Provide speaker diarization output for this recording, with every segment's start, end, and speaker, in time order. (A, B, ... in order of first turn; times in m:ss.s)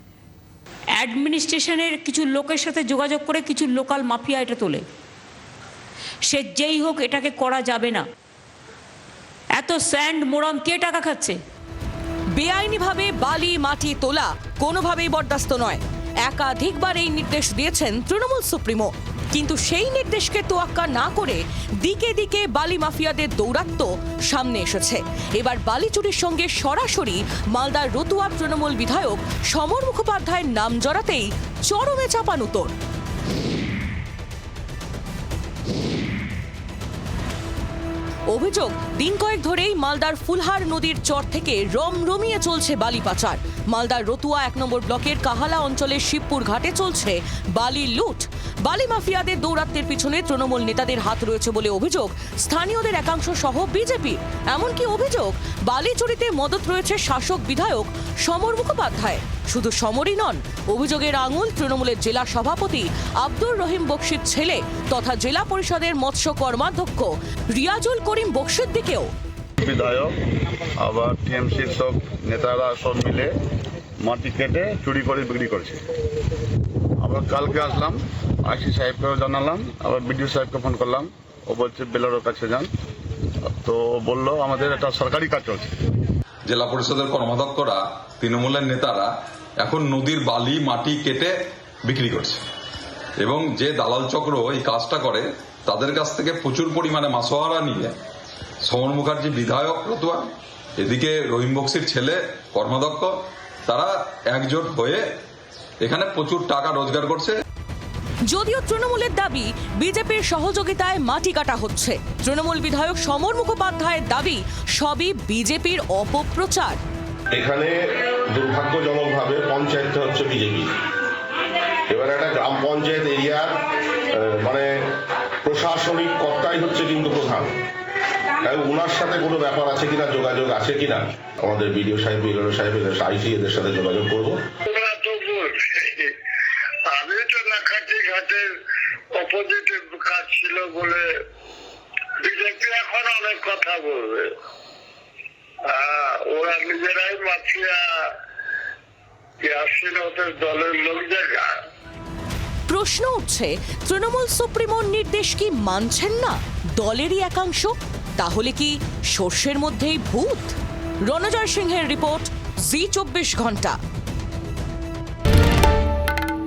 0:01.0-0:04.8 A
0:06.3-0:08.0 A
0:09.6-0:11.4 A
0:12.4-0:32.8 B
0:38.3-1:09.1 B
1:09.6-1:10.1 C
1:10.8-1:13.3 C
1:14.0-1:15.8 C
1:17.0-1:22.7 C
1:23.5-1:25.7 C
1:26.5-1:29.1 D
1:29.6-1:31.3 D
1:31.9-1:32.4 D
1:33.2-1:37.9 D
1:38.6-1:43.1 D
1:43.7-1:45.0 D
1:45.8-1:47.4 D
1:48.3-1:56.8 B
1:57.3-2:00.7 E
2:01.9-2:07.5 E
2:08.4-2:14.4 E
2:14.7-2:16.1 F
2:16.9-2:18.5 F
2:19.1-2:21.1 F
2:22.2-2:24.3 F
2:25.7-2:28.1 F
2:29.4-2:31.5 F
2:32.7-2:43.8 B